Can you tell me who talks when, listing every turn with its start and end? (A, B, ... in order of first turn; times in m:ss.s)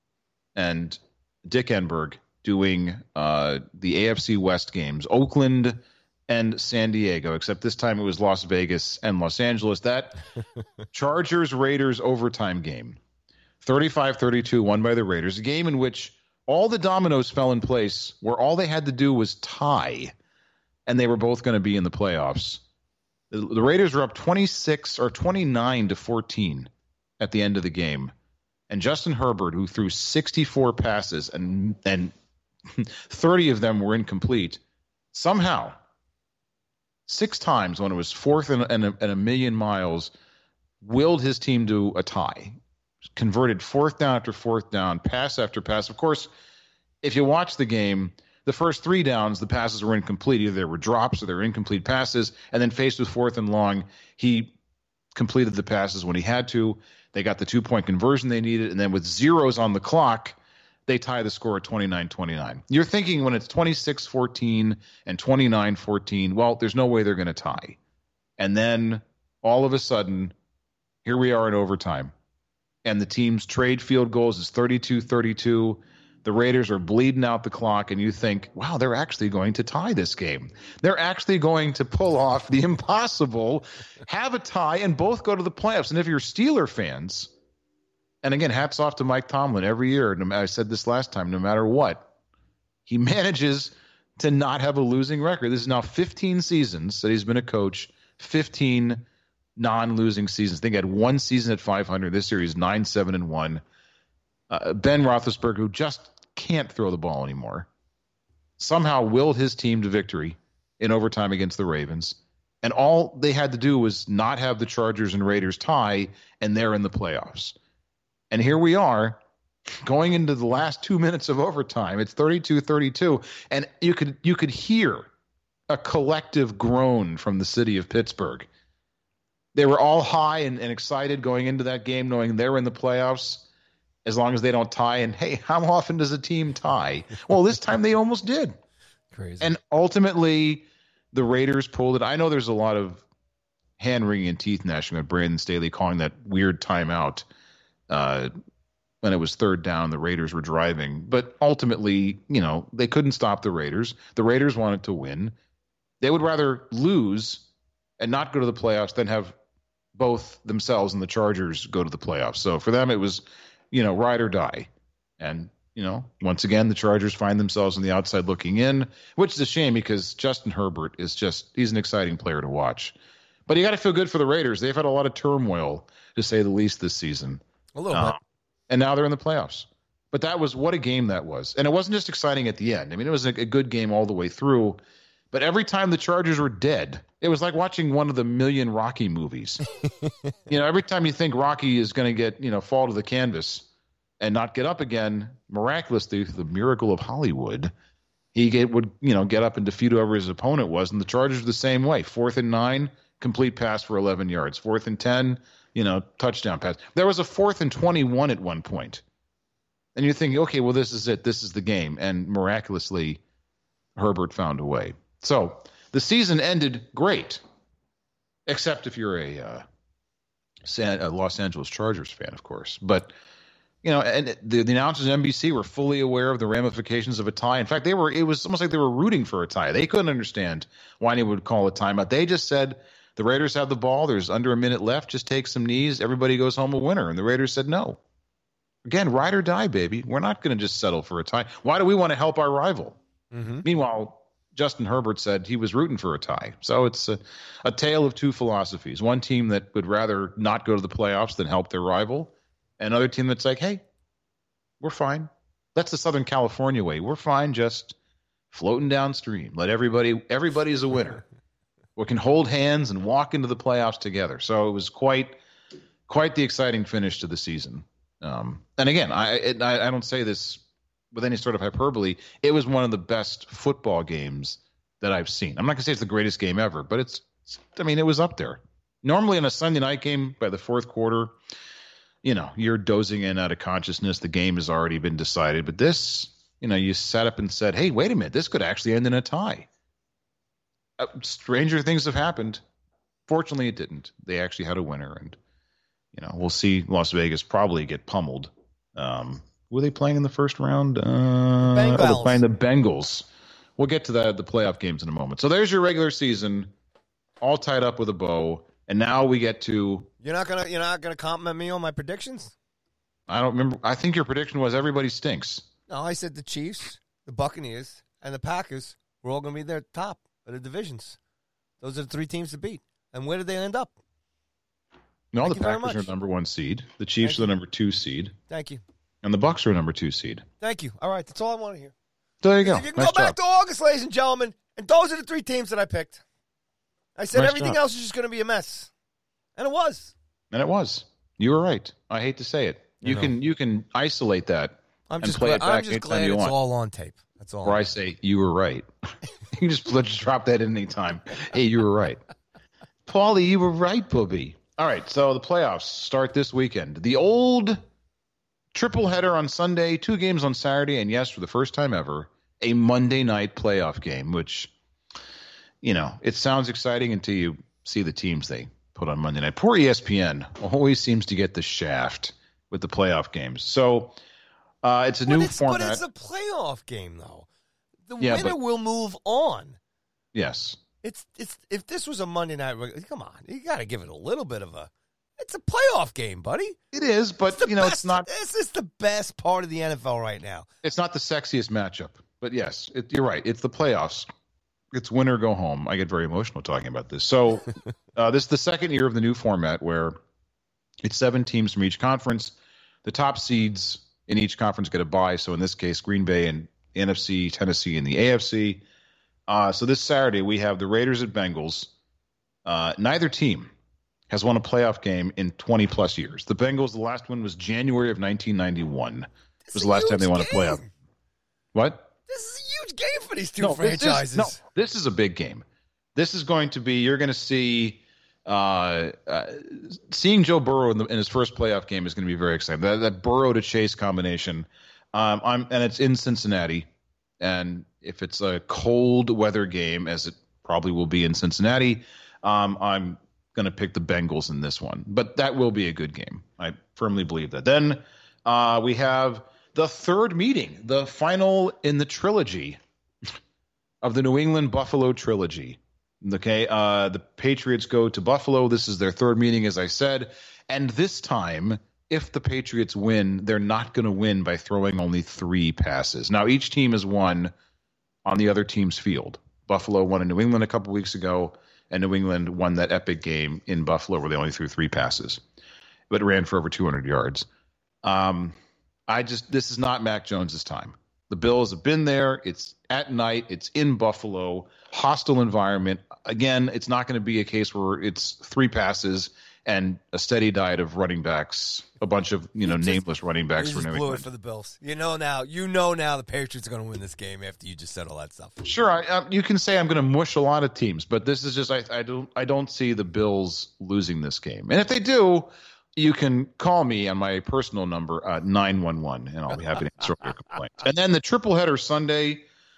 0:00.5-0:10.2 A
0:10.9-0:13.0 A
0:13.6-0:20.1 A
0:20.9-0:22.6 A
0:23.3-0:28.1 A
0:28.7-0:32.1 A
0:32.7-0:34.6 A
0:35.1-0:35.8 A
0:37.1-0:40.1 A
0:40.8-0:42.6 A
0:43.1-0:46.3 A
0:47.0-0:54.5 A
0:55.1-1:07.8 A
1:08.4-1:10.3 A
1:11.0-1:12.1 A
1:12.8-1:27.3 A
1:28.2-1:32.1 A
1:32.8-1:39.0 A
1:39.6-1:43.6 A
1:44.5-1:47.7 A
1:48.6-1:57.6 A
1:58.3-1:59.2 A
1:59.8-2:05.1 A
2:05.7-2:08.5 A
2:09.5-2:13.5 A
2:14.0-2:18.6 A
2:19.1-2:19.6 B
2:19.4-2:23.0 A
2:23.8-2:27.2 A
2:27.9-2:28.3 A
2:29.0-2:35.3 A
2:36.0-2:37.5 A
2:38.0-2:39.4 A
2:39.9-2:52.9 A
2:53.5-2:58.2 A
2:57.7-2:58.2 B
2:58.7-3:04.8 A
3:05.3-3:09.6 A
3:09.9-3:10.3 B
3:10.5-3:13.7 A
3:14.2-3:17.7 A
3:18.3-3:29.0 A
3:29.9-3:33.2 A
3:34.0-3:37.4 A
3:38.4-3:39.6 A
3:40.6-3:43.1 A
3:43.8-3:58.0 A
3:58.8-4:03.0 A
4:03.3-4:03.6 B
4:03.6-4:13.8 A
4:14.8-4:17.9 A
4:18.5-4:21.2 A
4:22.0-4:25.4 A
4:26.1-4:41.3 A
4:42.2-4:49.7 A
4:51.0-4:52.6 A
4:53.3-4:55.4 A
4:56.1-5:06.7 A
5:01.6-5:02.4 B
5:07.4-5:10.1 A
5:10.2-5:12.5 B
5:13.3-5:15.7 A
5:15.9-5:21.2 B
5:21.8-5:23.9 B
5:25.3-5:28.3 A
5:25.4-5:26.1 B
5:27.2-5:27.5 B
5:28.5-5:28.8 B
5:29.2-5:30.4 A
5:30.6-5:31.9 B
5:32.4-5:33.4 A
5:32.6-5:36.2 B
5:37.2-5:38.9 B
5:37.3-5:37.8 A
5:39.6-5:40.1 B
5:40.5-5:46.5 A
5:43.0-5:43.3 B
5:45.1-5:47.9 B
5:47.6-5:48.9 A
5:49.5-5:52.2 A
5:53.0-5:57.8 A
5:58.7-6:04.7 A
6:05.8-6:14.2 A
6:14.8-6:16.0 A
6:15.3-6:17.5 B
6:18.1-6:19.8 B
6:18.2-6:18.5 A
6:20.3-6:20.8 A
6:21.0-6:26.8 B
6:26.9-6:28.3 A
6:27.5-6:30.7 B
6:30.8-6:34.3 A
6:34.9-6:40.2 A
6:41.0-6:48.8 A
6:49.5-6:51.9 A
6:52.6-6:53.7 A
6:54.3-7:00.8 A
6:59.7-7:00.9 B
7:01.7-7:02.1 A
7:02.3-7:04.6 B
7:03.6-7:16.9 A
7:17.4-7:32.8 A
7:34.0-7:47.5 A
7:48.2-7:55.4 A
7:56.1-7:57.5 A
7:58.0-7:58.6 A
7:59.1-8:14.3 A
8:12.6-8:13.0 B
8:13.6-8:18.6 B
8:18.6-8:32.4 A